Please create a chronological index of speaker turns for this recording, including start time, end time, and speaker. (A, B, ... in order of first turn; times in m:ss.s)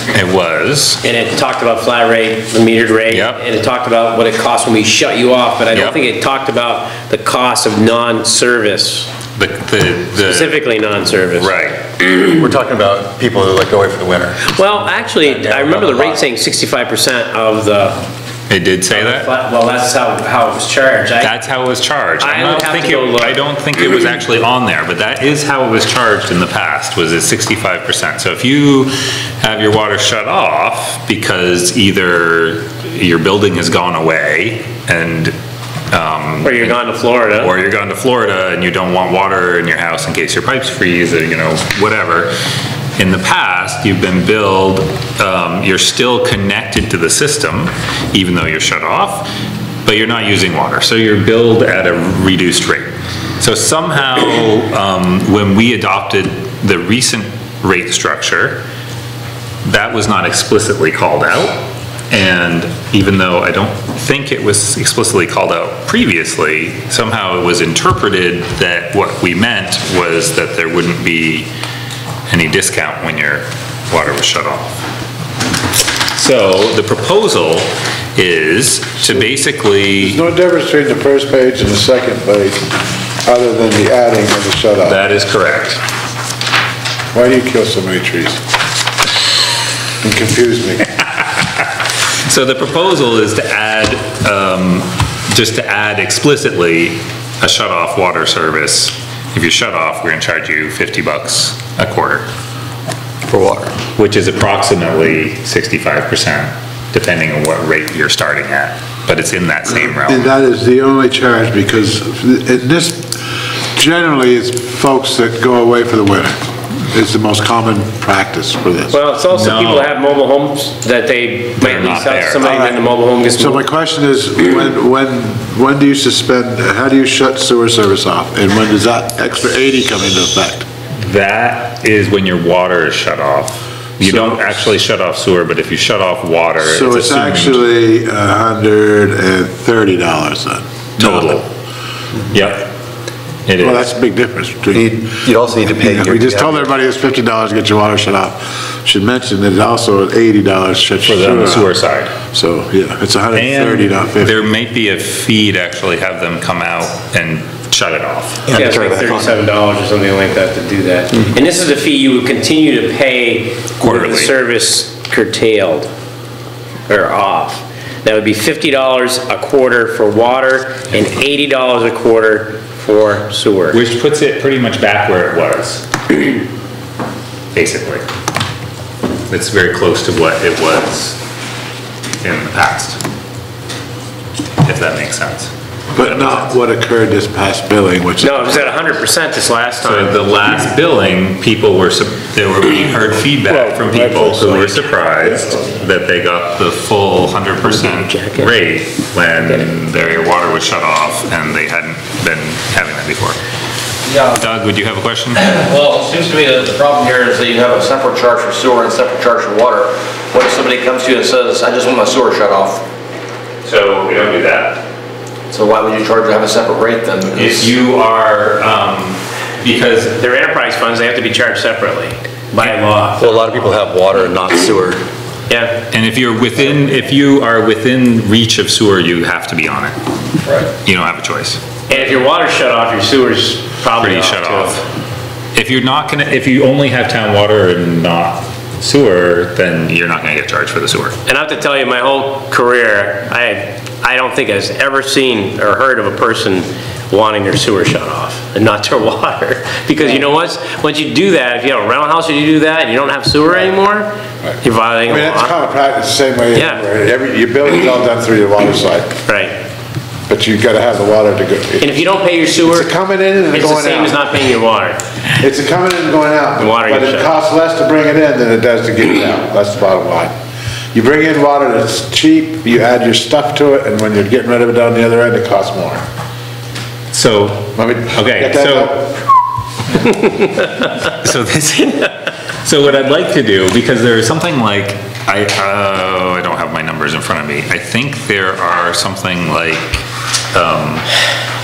0:00.1-0:01.0 A
0:01.0-0:09.1 B
0:03.1-0:03.4 A
0:09.4-0:10.6 A
0:10.2-0:11.5 B
0:11.4-0:11.8 A
0:12.0-0:14.6 C
0:14.5-0:18.0 B
0:15.2-0:16.2 C
0:18.5-0:19.3 A
0:18.9-0:21.5 B
0:21.2-0:35.4 A
0:22.2-0:23.4 B
0:35.9-0:36.8 A
0:36.4-0:37.5 B
0:37.3-0:42.3 A
0:43.0-0:49.3 A
0:49.8-0:58.6 A
0:59.6-1:11.5 A
1:12.3-1:14.8 A
1:16.1-1:20.2 A
1:20.0-1:25.0 D
1:24.8-1:25.8 A
1:27.1-1:28.4 D
1:30.0-1:30.9 D
1:32.2-1:42.3 A
1:43.3-1:43.7 C
1:44.0-1:50.3 A
1:49.7-1:53.1 D
1:53.8-1:56.3 D
1:56.9-1:59.0 D
1:58.9-2:03.6 B
1:59.3-1:59.9 A
2:01.6-2:02.4 A
2:02.4-2:02.8 D
2:03.4-2:10.7 D
2:11.0-2:17.6 A
2:14.0-2:14.6 D
2:16.6-2:21.3 D
2:21.0-2:21.5 A
2:22.3-2:22.7 A
2:23.5-2:23.8 A
2:23.6-2:25.2 D
2:24.7-2:26.7 C
2:25.8-2:31.7 D
2:31.0-2:32.1 A
2:32.3-2:34.4 D
2:33.3-2:38.6 A
2:38.5-2:39.4 C
2:38.5-2:45.9 B
2:43.8-2:44.3 A
2:46.9-2:53.8 B
2:53.7-2:56.3 A
2:57.5-2:58.0 A
2:59.3-3:01.2 A
3:02.2-3:03.0 A
3:04.6-3:06.5 A
3:06.0-3:08.8 D
3:08.2-3:10.2 B
3:09.8-3:23.4 A
3:13.5-3:14.9 D
3:17.7-3:18.5 B
3:24.0-3:24.4 E
3:24.3-3:25.5 A
3:25.4-3:32.8 E
3:33.6-3:34.8 A
3:35.5-3:37.7 E
3:37.4-3:40.2 A
3:40.2-3:43.3 B
3:43.2-3:45.0 C
3:45.5-3:45.8 B
3:45.9-3:50.0 A
3:50.8-3:51.6 A
3:51.9-3:54.8 B
3:54.0-3:54.9 A
3:55.6-4:01.2 A
4:01.3-4:15.6 B
4:15.1-4:19.2 D
4:16.6-4:16.8 B
4:19.3-4:19.6 B
4:20.3-4:22.1 D
4:21.8-4:22.9 B
4:22.7-4:24.4 D
4:23.5-4:25.0 B
4:25.4-4:30.3 D
4:26.6-4:27.3 B
4:30.9-4:36.0 D
4:37.1-4:39.1 A
4:37.8-4:39.1 D
4:40.0-4:50.0 A
4:50.5-4:51.1 A